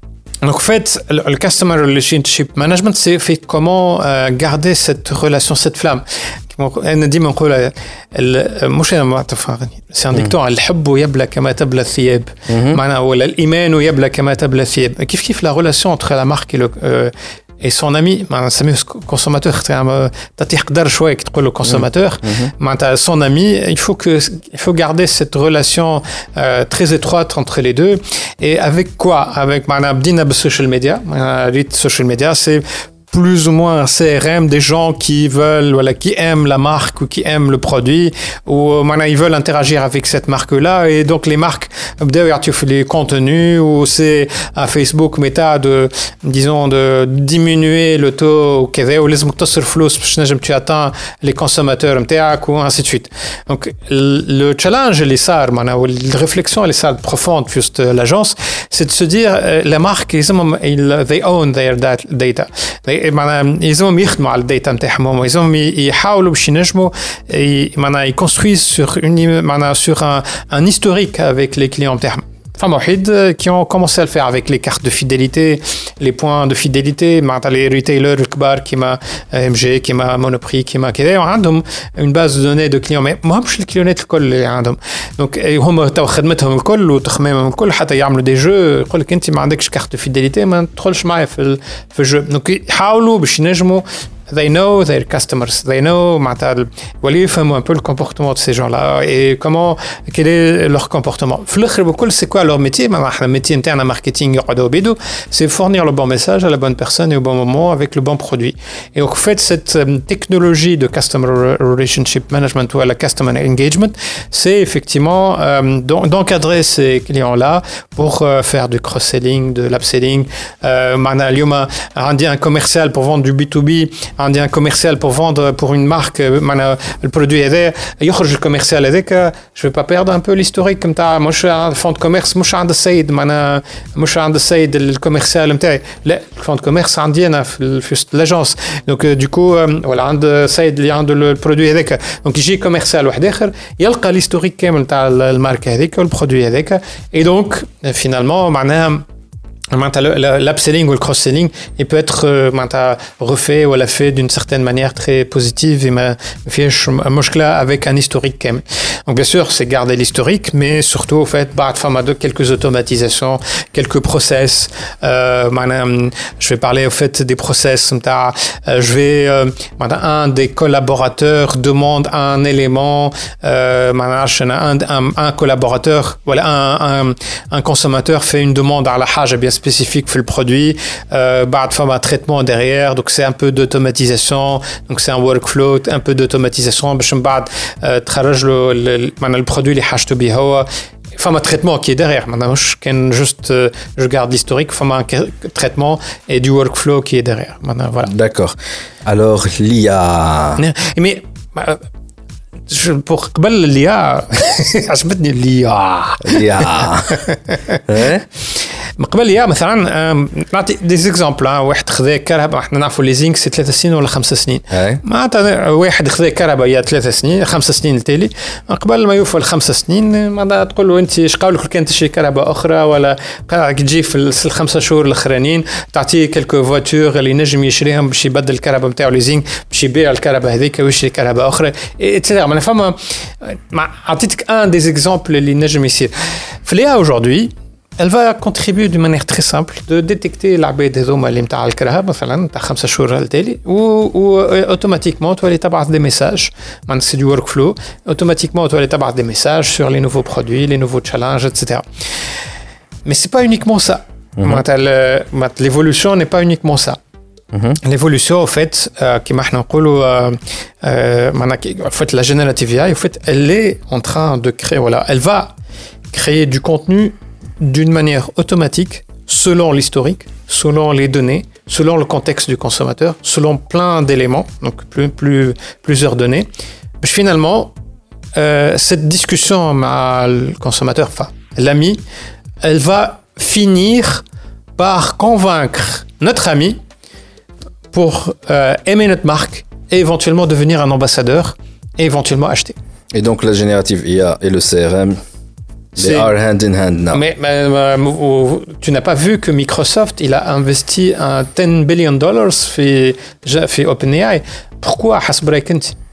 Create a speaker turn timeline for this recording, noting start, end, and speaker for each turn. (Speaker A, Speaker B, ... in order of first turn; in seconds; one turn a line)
Speaker A: 0.4-149.0
Speaker B: 12.5-12.8
Speaker B: 21.6-22.5
Speaker A: 149.7-198.1
Speaker B: 198.0-200.6
Speaker A: 200.6-201.8
Speaker A: 202.7-207.8
Speaker B: 206.2-207.2
Speaker B: 207.9-208.2
Speaker A: 209.0-251.8
Speaker B: 214.7-215.0
Speaker A: 253.0-257.0
Speaker B: 254.4-254.6
Speaker B: 257.5-257.8
Speaker A: 257.8-265.5
Speaker A: 266.1-276.5
Speaker A: 277.0-277.7
Speaker A: 278.3-282.0
Speaker A: 282.6-284.2
Speaker A: 284.8-286.8
Speaker A: 287.9-292.8
Speaker B: 293.1-295.2
Speaker A: 295.9-296.3
Speaker B: 295.9-297.2
Speaker A: 297.1-306.0